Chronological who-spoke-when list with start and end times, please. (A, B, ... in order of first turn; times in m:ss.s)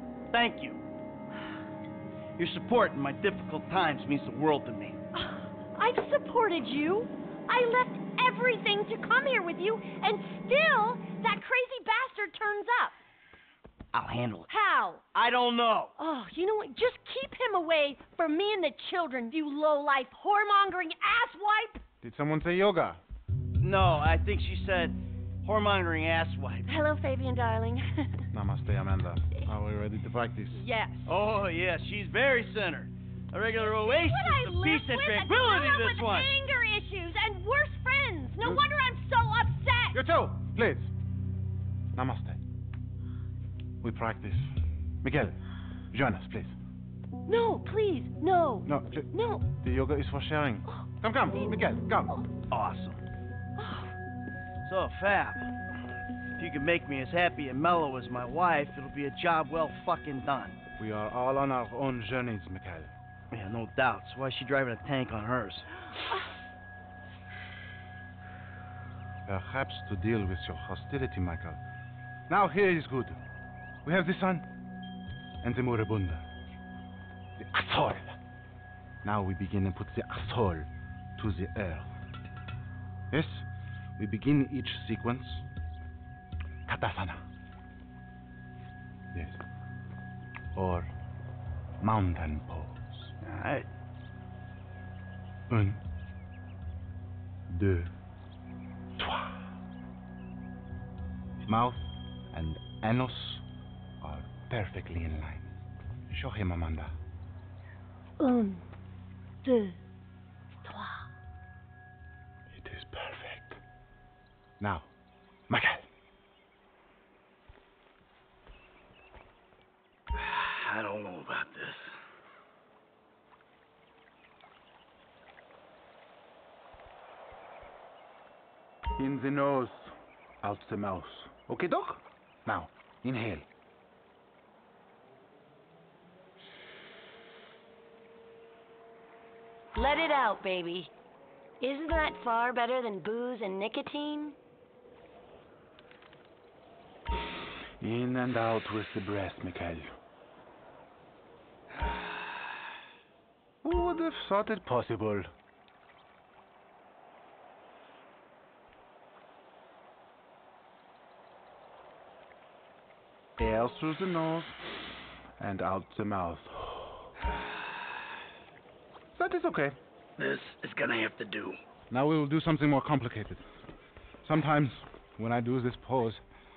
0:00.3-0:00.8 A
0:02.4-0:05.0 A
0:05.1-0:13.0 B
0:13.9-0:14.5 A
0:14.5-0:15.0 B
0:15.1-0:15.9 A
0:16.0-0:21.8 B
0:22.0-0:23.0 C
0:23.6-0:26.7 A
0:26.7-0:28.2 B
0:28.3-0:30.6 C
0:30.6-0:31.1 B
0:31.1-0:36.3 A
0:33.6-0:40.0 B
0:39.9-0:40.9 C
0:42.0-0:42.4 C
0:43.8-0:44.5 C
0:45.0-0:45.4 C
0:45.9-0:46.5 C
0:47.3-0:49.5 B
0:48.7-0:52.2 C
0:52.5-0:53.0 A
0:53.6-0:53.9 B
0:54.6-0:55.5 A
0:56.4-1:00.6 A
1:00.8-1:02.9 C
1:03.3-1:05.7 A
1:09.3-1:11.6 C
1:12.3-1:13.2 C
1:13.8-1:14.4 C
1:15.4-1:16.2 C
1:17.4-1:18.2 C
1:19.0-1:21.9 C
1:23.1-1:23.4 C
1:24.0-1:25.4 C
1:26.7-1:27.2 C
1:30.6-1:30.9 C
1:31.8-1:33.1 C
1:33.2-1:33.7 A
1:35.5-1:35.8 C
1:37.5-1:37.9 C
1:39.0-1:39.4 C
1:41.5-1:43.4 C
1:44.0-1:45.5 C
1:46.1-1:46.9 C
1:48.2-1:48.6 B
1:49.4-1:49.8 B
1:50.6-1:51.0 B
1:52.5-1:53.6 C
1:54.6-1:54.9 C
1:55.5-1:55.9 C
2:00.2-2:01.9 A
2:09.0-2:13.5 C
2:19.8-2:20.9 B
2:21.6-2:24.4 B
2:27.8-2:29.9 C
2:33.6-2:35.3 C
2:43.4-2:44.6 C
2:45.4-2:47.1 C
2:49.2-2:49.8 C
2:50.2-2:51.6 A
2:51.9-2:53.4 C
2:54.2-2:56.2 C